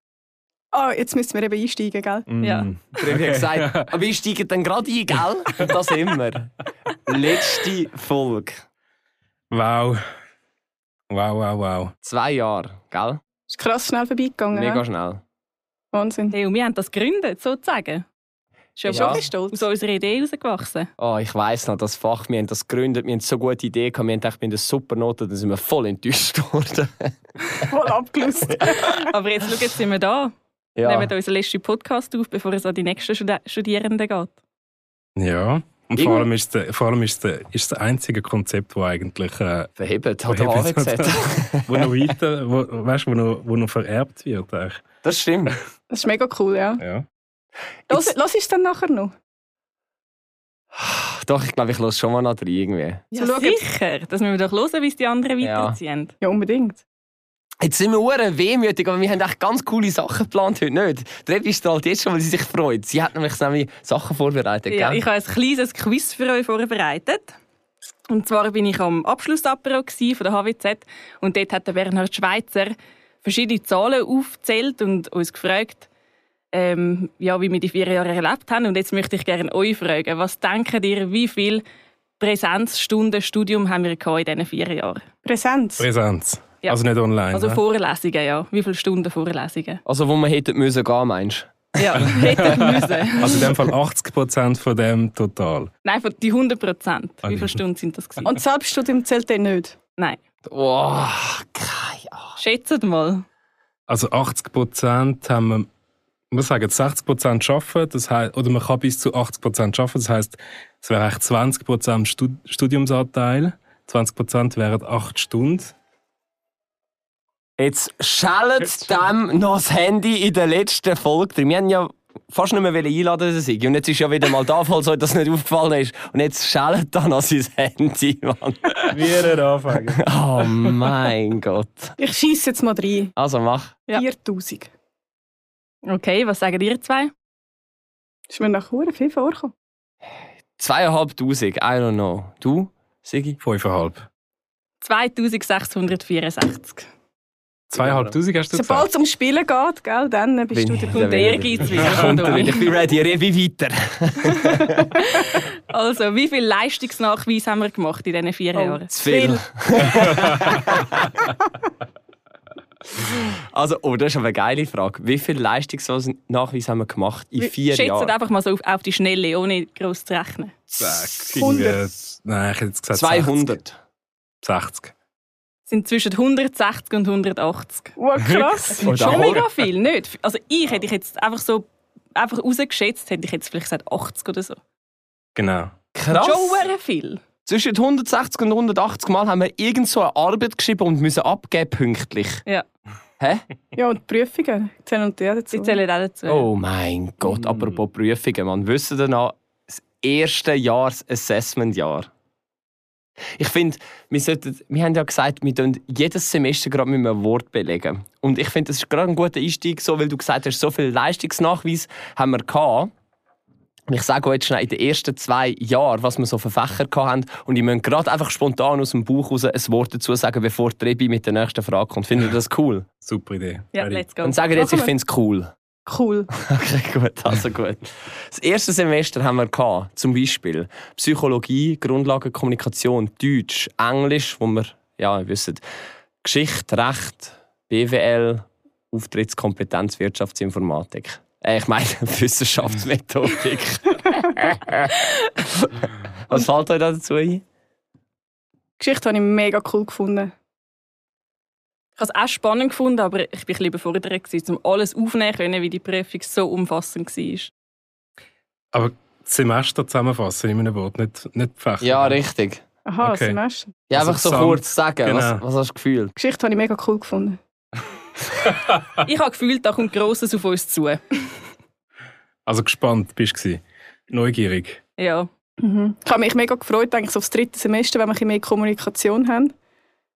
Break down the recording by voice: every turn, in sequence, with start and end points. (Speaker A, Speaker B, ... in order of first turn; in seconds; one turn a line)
Speaker A: 0.7-2.3
Speaker B: 2.3-3.9
Speaker C: 2.4-2.7
Speaker D: 3.0-6.5
Speaker D: 7.0-8.6
Speaker B: 9.5-10.0
Speaker B: 11.1-11.9
Speaker D: 12.0-13.2
Speaker A: 13.5-14.8
Speaker D: 14.5-15.2
Speaker A: 15.9-16.3
Speaker C: 16.3-18.0
Speaker C: 18.8-20.9
Speaker D: 18.9-19.2
Speaker A: 18.9-19.6
Speaker D: 21.0-27.1
Speaker A: 27.7-29.0
Speaker C: 28.6-34.4
Speaker D: 30.8-31.1
Speaker B: 35.1-39.7
Speaker D: 36.0-36.3
Speaker D: 39.8-41.9
Speaker B: 40.3-44.8
Speaker D: 45.0-45.5
Speaker A: 45.9-46.8
Speaker B: 46.8-47.0
Speaker A: 47.9-49.1
Speaker D: 50.7-53.0
Speaker C: 53.1-56.1
Speaker A: 53.1-53.6
Speaker D: 55.4-55.8
Speaker A: 56.2-56.8
Speaker D: 57.6-65.0
Speaker C: 64.7-67.3
Speaker C: 68.1-75.9
Speaker C: 76.5-81.6
Speaker C: 82.2-85.0
Speaker A: 85.2-85.9
Speaker B: 85.8-87.6
Speaker C: 87.3-89.8
Speaker D: 89.8-91.7
Speaker C: 91.8-93.4
Speaker B: 92.1-95.7
Speaker C: 95.8-98.3
Speaker B: 97.2-97.6
Speaker A: 98.2-99.8
Speaker D: 100.5-102.4
Speaker C: 102.3-103.2
Speaker B: 103.9-105.7
Speaker B: 106.3-115.7
Speaker D: 117.6-128.9
Speaker B: 128.9-130.9
Speaker D: 130.0-131.9
Speaker A: 132.0-133.1
Speaker D: 133.2-133.8
Speaker A: 133.9-134.7
Speaker C: 135.9-137.1
Speaker A: 138.3-139.5
Speaker D: 140.6-143.4
Speaker B: 143.4-144.0
Speaker C: 144.8-146.8
Speaker B: 147.7-148.9
Speaker D: 147.8-148.2
Speaker A: 148.5-151.4
Speaker D: 150.5-154.7
Speaker C: 150.9-152.7
Speaker B: 151.9-152.2
Speaker C: 155.0-158.9
Speaker A: 158.5-160.2
Speaker D: 158.9-161.1
Speaker D: 163.2-168.1
Speaker C: 167.4-170.6
Speaker D: 170.7-171.5
Speaker B: 170.8-173.6
Speaker A: 171.3-171.9
Speaker D: 172.9-173.8
Speaker B: 174.4-174.9
Speaker C: 175.7-177.9
Speaker A: 178.0-179.2
Speaker C: 178.8-184.6
Speaker D: 178.8-179.4
Speaker B: 185.3-185.7
Speaker D: 185.9-186.7
Speaker C: 186.1-187.2
Speaker D: 187.4-192.4
Speaker A: 193.7-195.8
Speaker C: 195.5-196.5
Speaker D: 196.3-202.1
Speaker D: 203.3-212.9
Speaker D: 213.9-222.8
Speaker B: 223.0-224.1
Speaker C: 223.7-224.5
Speaker D: 224.2-225.5
Speaker A: 224.5-224.9
Speaker A: 225.8-226.3
Speaker D: 226.4-235.6
Speaker D: 236.2-244.7
Speaker D: 246.2-247.4
Speaker A: 248.8-250.3
Speaker C: 252.0-257.5
Speaker B: 258.7-262.2
Speaker D: 261.8-262.6
Speaker A: 262.9-263.7
Speaker B: 263.0-263.4
Speaker D: 263.9-266.1
Speaker B: 263.9-265.4
Speaker A: 266.1-267.4
Speaker C: 269.0-271.0
Speaker B: 272.5-274.8
Speaker C: 275.0-275.3
Speaker A: 275.6-279.5